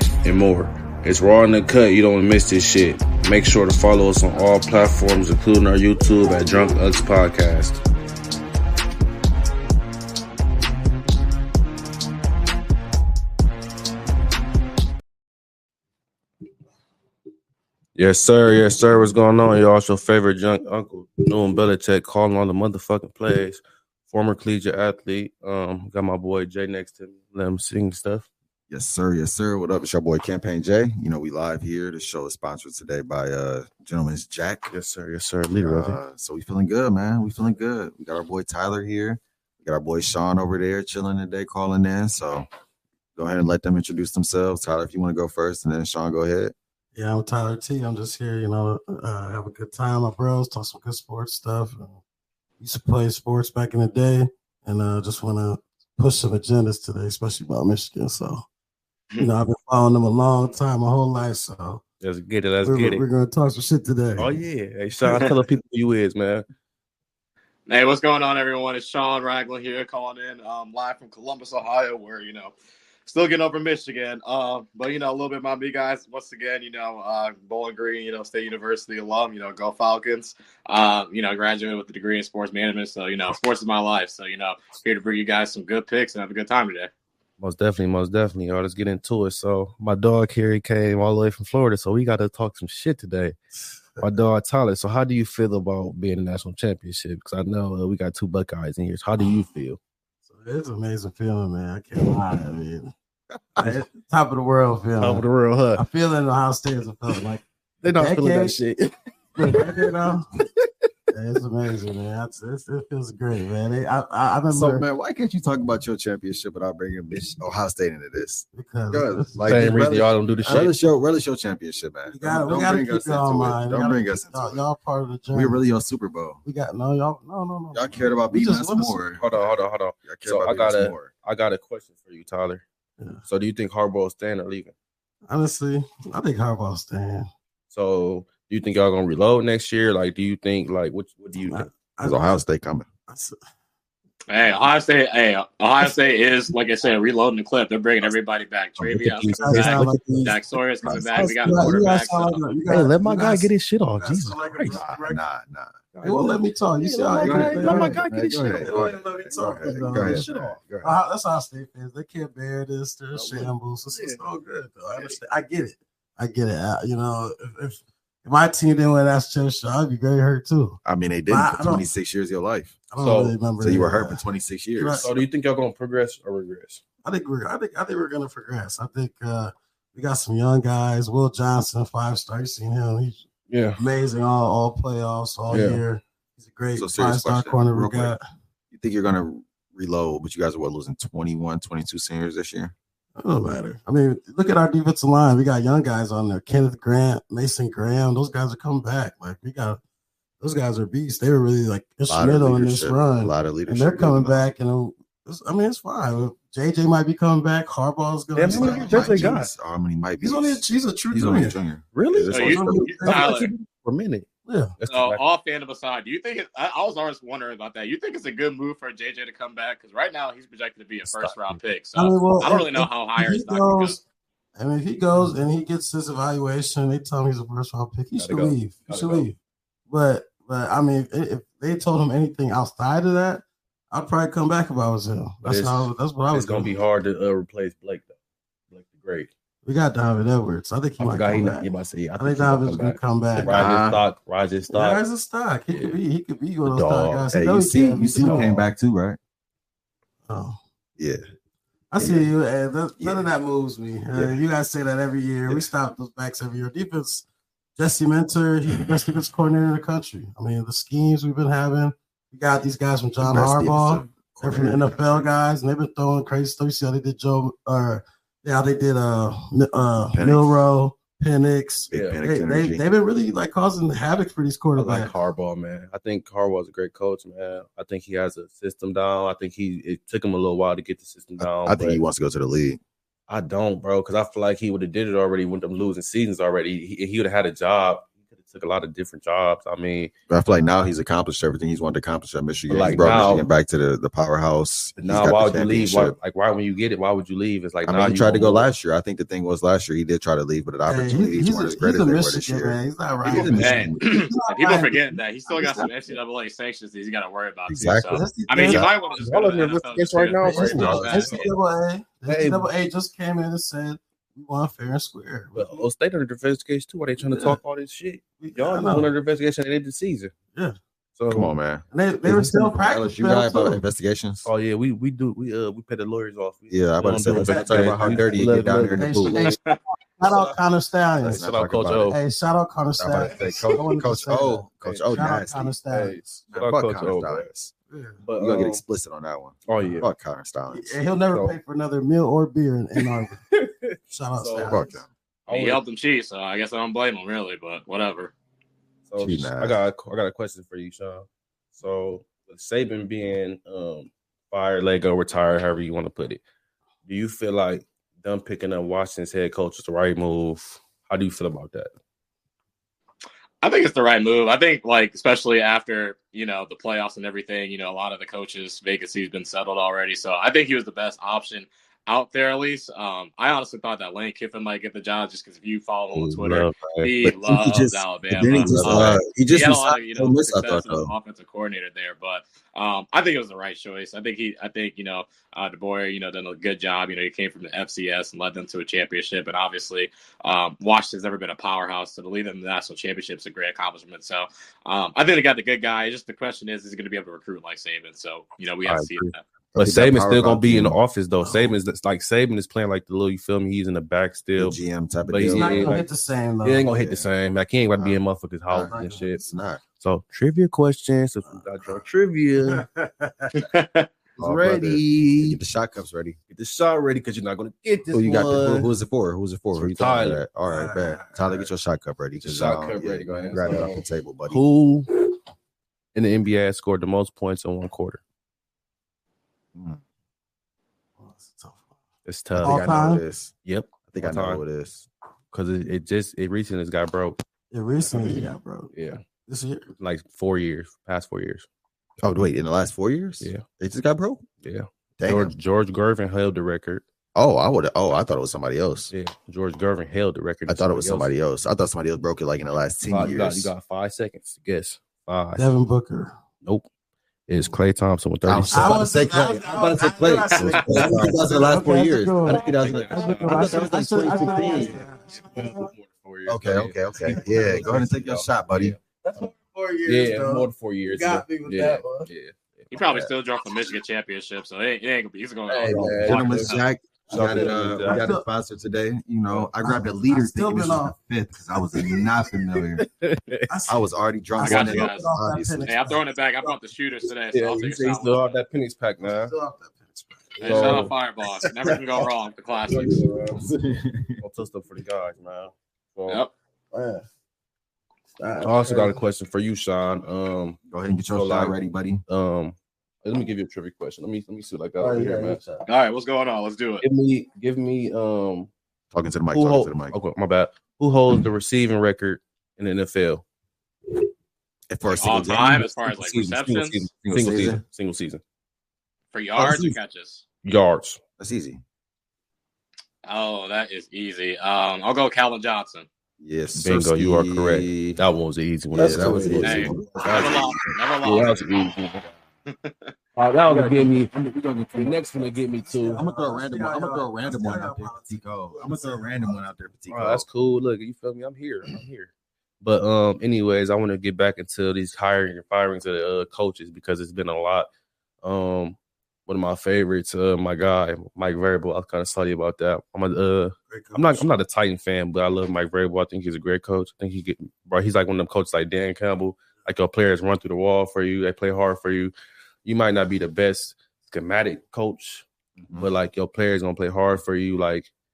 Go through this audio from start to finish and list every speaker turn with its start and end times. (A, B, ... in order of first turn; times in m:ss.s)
0:00.2-0:07.8 A
0:18.0-0:28.3 A
0:28.7-0:34.7 B
0:34.7-0:36.0 A
0:35.6-0:42.5 B
0:43.2-0:46.5 B
0:47.0-0:52.0 C
0:52.6-0:58.4 C
0:59.2-1:01.8 C
1:02.0-1:03.0 A
1:02.6-1:04.3 C
1:04.2-1:06.4 A
1:07.7-1:12.5 D
1:13.0-1:26.9 D
1:27.4-1:33.4 A
1:34.0-1:39.8 A
1:40.3-1:42.9 C
1:43.6-1:48.6 C
1:45.0-1:45.8 A
1:47.8-1:49.0 A
1:49.4-1:50.2 C
1:49.5-1:49.9 A
1:51.1-1:54.8 C
1:54.5-2:04.6 B
1:58.5-1:59.5 C
1:59.5-2:00.7 A
2:00.4-2:00.7 C
2:02.1-2:05.6 C
2:05.3-2:06.4 B
2:06.4-2:09.0 C
2:07.7-2:09.5 B
2:09.2-2:12.6 A
2:10.0-2:11.1 B
2:13.3-2:14.7 A
2:15.3-2:17.3 C
2:17.7-2:21.7 A
2:21.4-2:22.4 C
2:22.0-2:22.9 B
2:23.1-2:23.4 C
2:24.3-2:32.4 D
2:28.8-2:32.1 A
2:29.4-2:30.3 C
2:31.4-2:35.2 C
2:32.7-2:34.8 A
2:34.7-2:35.8 B
2:35.9-2:40.6 A
2:36.0-2:38.0 C
2:37.2-2:40.9 B
2:38.6-2:51.9 C
2:43.1-2:44.2 A
2:50.8-2:52.8 B
2:52.9-2:54.2 C
2:53.0-2:53.4 A
2:53.6-2:55.2 B
2:54.8-2:55.1 C
2:55.0-2:56.8 A
2:57.0-3:03.2 C
3:03.5-3:03.8 A
3:03.8-3:08.2 C
3:05.5-3:05.8 A
3:06.8-3:08.1 B
3:08.7-3:12.7 B
3:13.2-3:19.8 C
3:20.4-3:29.4 C
3:22.1-3:24.5 B
3:28.4-3:29.5 A
3:28.5-3:33.0 B
3:30.2-3:31.6 C
3:31.9-3:35.2 A
3:32.3-3:33.5 D
3:32.4-3:33.3 C
3:34.5-3:34.7 C
3:34.9-3:44.0 D
3:41.0-3:41.6 A
3:42.0-3:44.0 C
3:44.6-3:49.4 C
3:48.2-3:49.3 A
3:49.9-3:56.7 C
3:55.4-3:58.1 A
3:58.7-3:59.3 A
3:59.6-4:04.0 C
4:01.0-4:05.0 A
4:03.4-4:03.7 B
4:04.7-4:08.6 C
4:05.7-4:06.0 A
4:06.6-4:07.3 A
4:07.3-4:09.2 B
4:08.2-4:08.6 A
4:10.3-4:10.6 C
4:11.9-4:17.3 C
4:12.0-4:12.3 B
4:13.0-4:13.2 B
4:17.8-4:35.1 C
4:23.2-4:25.3 B
4:30.1-4:30.7 B
4:31.9-4:32.8 B
4:31.9-4:32.2 A
4:34.8-4:42.0 A
4:41.4-4:42.8 B
4:43.3-4:50.1 A
4:50.3-4:56.2 B
4:52.7-4:53.5 A
4:55.0-4:58.7 A
4:57.9-5:04.0 B
5:00.9-5:06.2 C
5:03.4-5:11.4 D
5:07.7-5:08.9 B
5:08.1-5:08.9 C
5:09.2-5:11.5 A
5:10.4-5:15.9 C
5:12.3-5:12.7 A
5:15.6-5:20.3 A
5:17.2-5:17.6 C
5:18.4-5:19.1 C
5:21.2-5:21.5 A
5:21.3-5:24.5 B
5:21.9-5:23.8 C
5:24.4-5:29.6 A
5:26.7-5:29.5 B
5:27.3-5:28.4 C
5:28.9-5:29.6 C
5:30.2-5:31.5 C
5:31.2-5:32.2 A
5:31.2-5:32.2 B
5:32.1-5:36.2 C
5:33.0-5:35.7 B
5:34.8-5:35.3 A
5:35.9-5:37.5 A
5:36.5-5:37.7 B
5:37.9-5:38.2 C
5:38.2-5:38.8 A
5:38.4-5:40.9 B
5:39.7-5:40.1 A
5:40.7-5:43.4 C
5:43.5-5:44.8 A
5:44.1-5:45.0 C
5:44.6-5:45.1 B
5:45.5-5:48.3 D
5:45.5-5:45.8 A
5:49.1-5:56.4 A
5:49.2-5:49.8 B
5:57.1-6:01.9 A
6:03.6-6:39.4 D
6:16.2-6:17.1 A
6:17.2-6:21.1 B
6:18.6-6:19.2 A
6:38.9-6:46.1 A
6:39.7-6:41.0 B
6:41.4-6:41.7 C
6:44.6-6:46.0 B
6:45.4-6:46.9 C
6:46.6-6:49.4 A
6:47.0-6:47.3 B
6:48.0-6:49.8 B
6:48.8-6:49.3 C
6:50.0-6:52.8 A
6:51.5-6:52.1 C
6:52.6-6:53.6 C
6:53.6-6:54.1 D
6:54.4-6:56.4 B
6:54.4-6:55.6 A
6:56.5-6:58.9 A
6:58.1-7:04.6 B
6:59.8-7:00.4 A
7:00.6-7:01.6 C
7:02.4-7:05.1 A
7:06.2-7:08.2 A
7:09.8-7:10.0 B
7:11.2-7:11.9 C
7:12.2-7:13.0 A
7:12.6-7:13.5 B
7:12.6-7:13.2 C
7:13.6-7:14.6 A
7:14.1-7:15.1 B
7:15.5-7:17.4 A
7:17.7-7:18.9 C
7:18.9-7:19.2 A
7:19.5-7:19.9 C
7:20.0-7:21.7 A
7:22.2-7:24.5 B
7:24.6-7:27.0 A
7:25.2-7:25.5 B
7:27.4-7:29.1 B
7:29.1-7:31.3 A
7:30.7-7:33.7 B
7:33.1-7:35.7 A
7:35.6-7:36.3 C
7:37.5-7:39.1 A
7:38.4-7:45.0 B
7:38.7-7:45.9 C
7:40.5-7:40.8 D
7:40.6-7:41.4 A
7:42.5-7:49.0 A
7:46.5-7:49.0 B
7:47.4-7:48.0 C
7:49.2-7:52.3 C
7:50.1-7:53.3 A
7:52.9-7:56.8 D
7:55.7-7:58.2 A
7:55.9-8:03.0 B
7:57.3-7:58.4 C
7:59.8-8:01.2 C
8:01.7-8:02.6 C
8:03.0-8:03.7 A
8:03.7-8:06.8 C
8:03.9-8:05.9 B
8:04.6-8:08.5 D
8:07.5-8:09.5 A
8:09.2-8:11.1 C
8:10.6-8:13.2 D
8:10.6-8:11.1 A
8:12.9-8:13.7 A
8:13.5-8:14.4 B
8:14.4-8:16.4 A
8:16.9-8:17.2 C
8:18.4-8:19.2 C
8:18.6-8:20.8 A
8:20.9-8:22.2 B
8:21.3-8:21.8 A
8:22.3-8:25.6 A
8:25.0-8:25.9 C
8:25.9-8:27.0 D
8:27.0-8:28.7 A
8:29.1-8:30.2 B
8:29.5-8:33.4 A
8:34.9-8:36.0 B
8:35.1-8:37.0 D
8:35.6-8:38.4 A
8:37.2-8:37.8 B
8:39.3-8:40.4 D
8:39.6-8:40.0 B
8:40.6-8:41.2 A
8:41.4-8:41.8 B
8:43.2-8:46.1 D
8:46.4-8:48.2 B
8:46.7-8:50.6 A
8:48.9-8:51.0 B
8:49.0-8:49.6 C
8:49.6-8:51.6 D
8:51.2-8:52.3 A
8:52.7-8:53.1 D
8:53.4-8:54.3 A
8:53.7-8:55.5 B
8:55.0-8:56.2 A
8:55.9-8:59.6 C
8:56.1-9:00.5 B
9:00.1-9:07.9 A
9:08.4-9:22.3 A
9:13.9-9:14.5 C
9:22.8-9:25.4 A
9:25.8-9:26.1 B
9:26.0-9:28.1 A